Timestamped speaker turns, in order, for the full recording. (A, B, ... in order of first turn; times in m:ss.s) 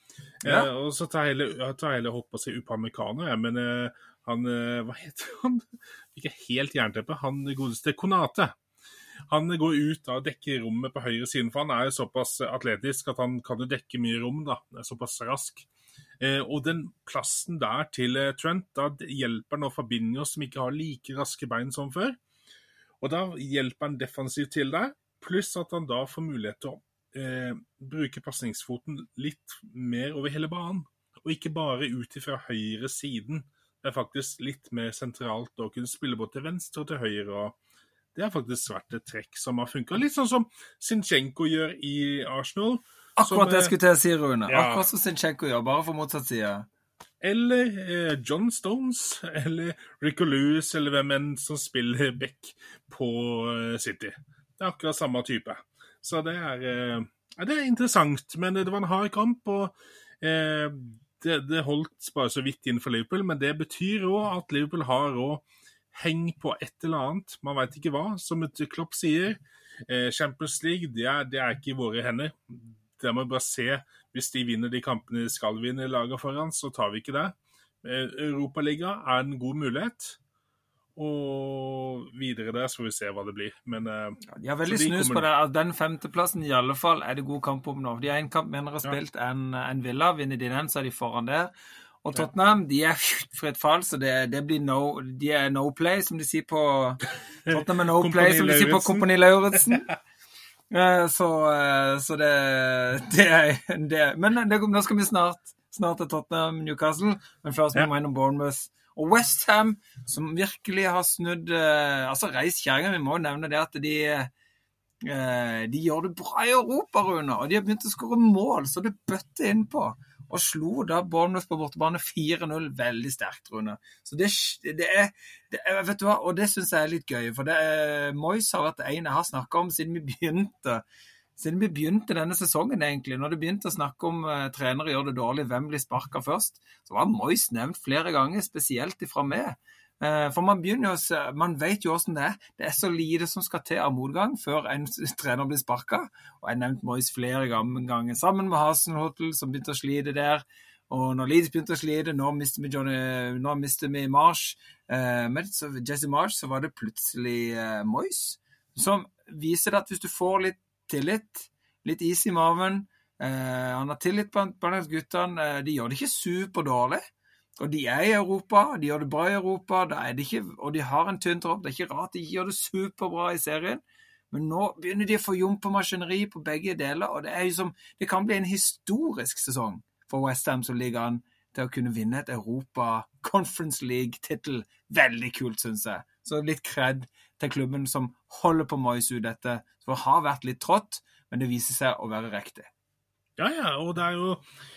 0:00.4-0:00.7 A
0:00.4-0:08.5 B
0:09.3-0:15.7 B
0:16.2-0:22.2 B
0:23.0-0:37.6 B
0:38.1-0:43.7 B
0:43.2-0:46.6 A
0:44.5-0:44.8 B
0:47.2-1:20.2 B
1:21.0-1:25.2 B
1:24.3-1:31.5 A
1:32.0-1:39.9 A
1:37.5-1:39.6 B
1:40.7-1:54.3 A
1:55.0-2:10.8 A
2:11.4-2:47.0 A
2:47.6-3:12.7 A
3:13.4-3:14.4 B